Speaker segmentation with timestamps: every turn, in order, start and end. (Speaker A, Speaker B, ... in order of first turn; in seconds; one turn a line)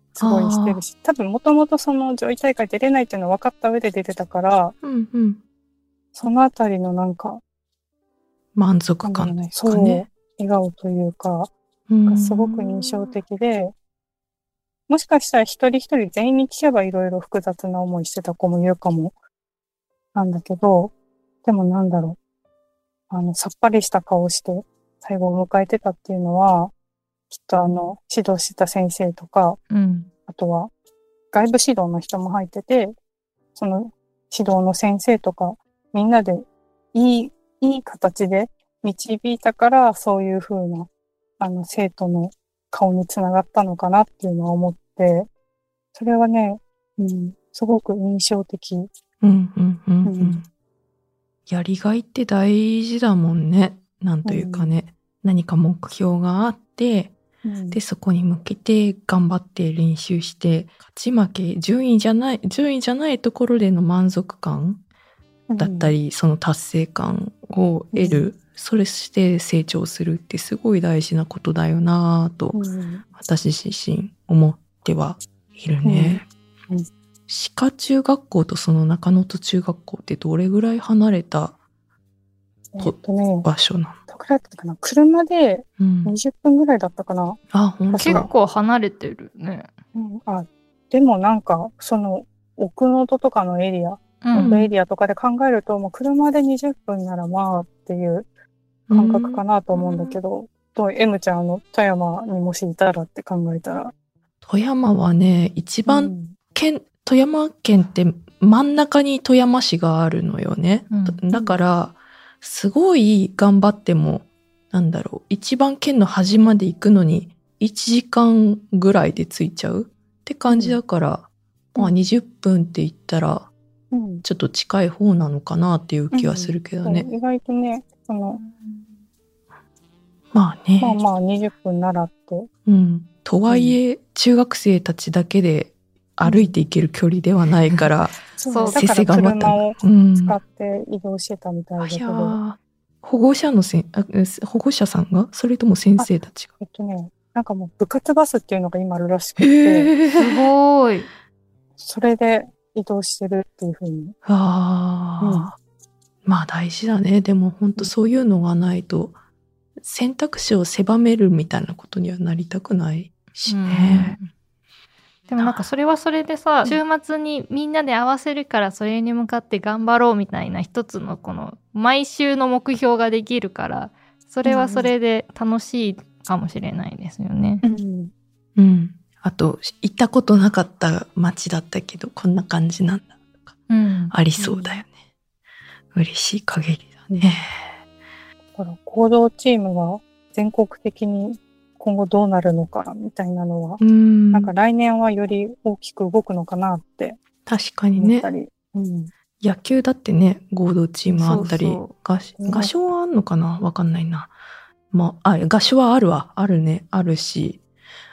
Speaker A: 0.1-4.7
Speaker B: 0.2-0.8
Speaker B: 4.8-5.4
Speaker A: 6.1-7.4
Speaker B: 8.5-10.0
Speaker A: 9.0-11.5
Speaker B: 11.9-13.2
Speaker A: 12.1-13.7
Speaker A: 14.9-19.1
Speaker A: 20.1-20.9
Speaker A: 21.4-22.2
Speaker A: 23.1-26.7
Speaker A: 27.3-29.6
Speaker C: 29.7-30.1
Speaker A: 30.3-30.7
Speaker A: 31.3-32.9
Speaker A: 33.5-45.3
Speaker A: 45.9-48.9
Speaker B: 49.2-50.4
Speaker A: 50.0-50.4
Speaker B: 51.5-57.1
Speaker A: 54.2-54.7
Speaker A: 57.4-57.8
Speaker B: 57.7-64.8
Speaker A: 65.5-66.0
Speaker B: 65.6-72.6
Speaker A: 67.9-68.2
Speaker A: 72.5-73.0
Speaker B: 73.1-76.2
Speaker A: 75.8-76.9
Speaker B: 77.3-81.5
Speaker A: 82.7-83.5
Speaker B: 82.8-84.0
Speaker A: 84.1-87.4
Speaker B: 85.8-86.1
Speaker B: 87.5-88.3
Speaker A: 87.9-88.3
Speaker C: 88.0-89.7
Speaker A: 89.9-98.3
Speaker C: 94.2-94.5
Speaker B: 94.3-94.7
Speaker B: 98.9-99.4
Speaker A: 98.9-103.9
Speaker B: 104.4-123.5
Speaker A: 105.8-106.3
Speaker C: 110.9-111.2
Speaker A: 120.5-120.8
Speaker A: 123.9-124.2
Speaker B: 124.2-127.1
Speaker A: 126.1-128.4
Speaker B: 130.3-131.0
Speaker A: 130.8-132.5
Speaker B: 132.7-138.2
Speaker A: 133.5-133.8
Speaker A: 136.2-136.5
Speaker A: 138.4-142.4
Speaker C: 138.5-138.8
Speaker B: 138.7-140.4
Speaker B: 141.8-146.5
Speaker A: 146.0-149.9
Speaker B: 149.4-150.5
Speaker C: 150.1-151.1
Speaker A: 151.8-154.1
Speaker B: 154.2-155.6
Speaker A: 155.2-155.5
Speaker B: 156.2-159.1
Speaker B: 159.8-164.2
Speaker C: 163.5-164.3
Speaker C: 165.3-177.6
Speaker A: 174.4-174.9
Speaker A: 177.6-178.1
Speaker B: 178.6-183.6
Speaker C: 183.7-184.1
Speaker B: 184.1-184.9
Speaker A: 184.4-184.8
Speaker B: 185.9-187.6
Speaker A: 187.1-187.4
Speaker A: 188.6-193.8
Speaker B: 193.8-194.5
Speaker A: 194.3-197.2
Speaker B: 197.4-198.2
Speaker A: 197.9-199.1
Speaker B: 199.4-204.3
Speaker C: 201.1-201.9
Speaker A: 202.4-202.7
Speaker B: 204.9-207.6